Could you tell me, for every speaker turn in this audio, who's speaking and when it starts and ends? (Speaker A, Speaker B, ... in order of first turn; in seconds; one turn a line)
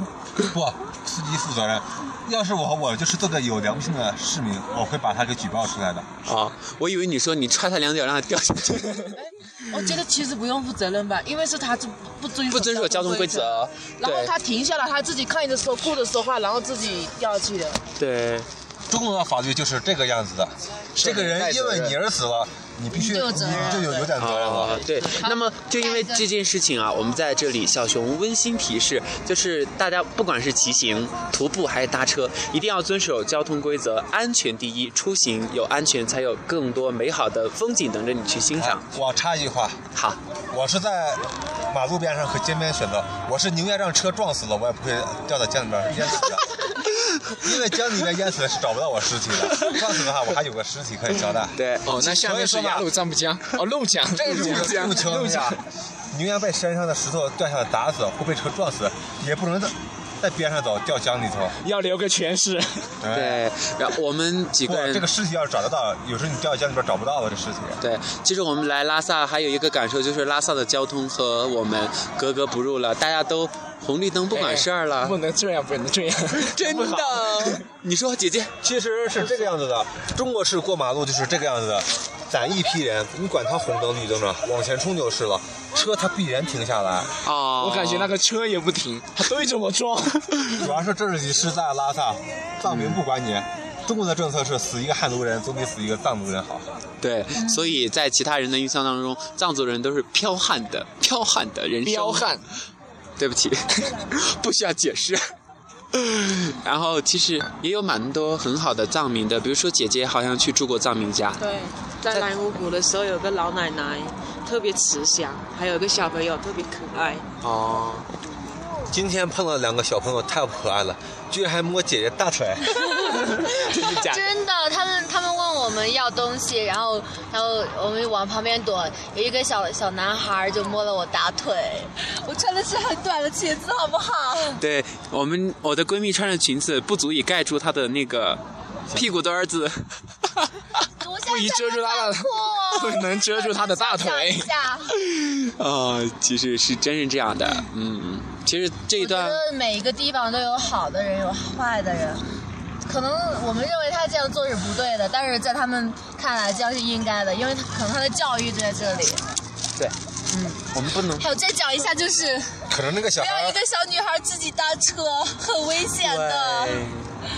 Speaker A: 0.4-6.1
Speaker B: 6.2-9.2
Speaker C: 9.2-17.8
Speaker B: 12.5-14.3
Speaker B: 18.0-18.5
Speaker A: 18.9-24.8
Speaker D: 21.0-21.9
Speaker E: 22.9-24.0
Speaker C: 23.7-24.1
Speaker B: 24.2-38.9
Speaker C: 24.8-25.3
Speaker E: 25.3-26.2
Speaker A: 38.6-39.8
Speaker B: 40.0-40.2
Speaker A: 40.5-46.6
Speaker A: 47.3-52.9
Speaker B: 51.6-51.9
Speaker D: 51.8-55.6
Speaker A: 54.1-61.6
Speaker B: 54.3-54.9
Speaker D: 61.6-62.9
Speaker A: 63.0-63.5
Speaker B: 63.1-65.1
Speaker A: 64.7-67.8
Speaker B: 67.8-75.2
Speaker D: 74.3-77.7
Speaker B: 76.5-78.5
Speaker A: 78.6-87.1
Speaker B: 87.2-88.1
Speaker D: 87.6-90.6
Speaker A: 90.6-96.7
Speaker B: 92.7-93.0
Speaker B: 97.0-102.3
Speaker D: 101.8-102.4
Speaker B: 103.2-105.2
Speaker B: 105.9-111.4
Speaker C: 111.4-117.2
Speaker B: 117.4-118.1
Speaker A: 118.9-122.7
Speaker E: 122.9-134.6
Speaker D: 123.4-124.0
Speaker B: 123.4-124.2
Speaker B: 134.6-140.5
Speaker E: 141.0-144.9
Speaker D: 141.3-144.5
Speaker B: 144.9-149.4
Speaker E: 149.0-152.2
Speaker E: 152.8-159.2
Speaker B: 160.6-161.3
Speaker E: 161.2-166.9
Speaker A: 162.7-163.6
Speaker B: 166.0-167.2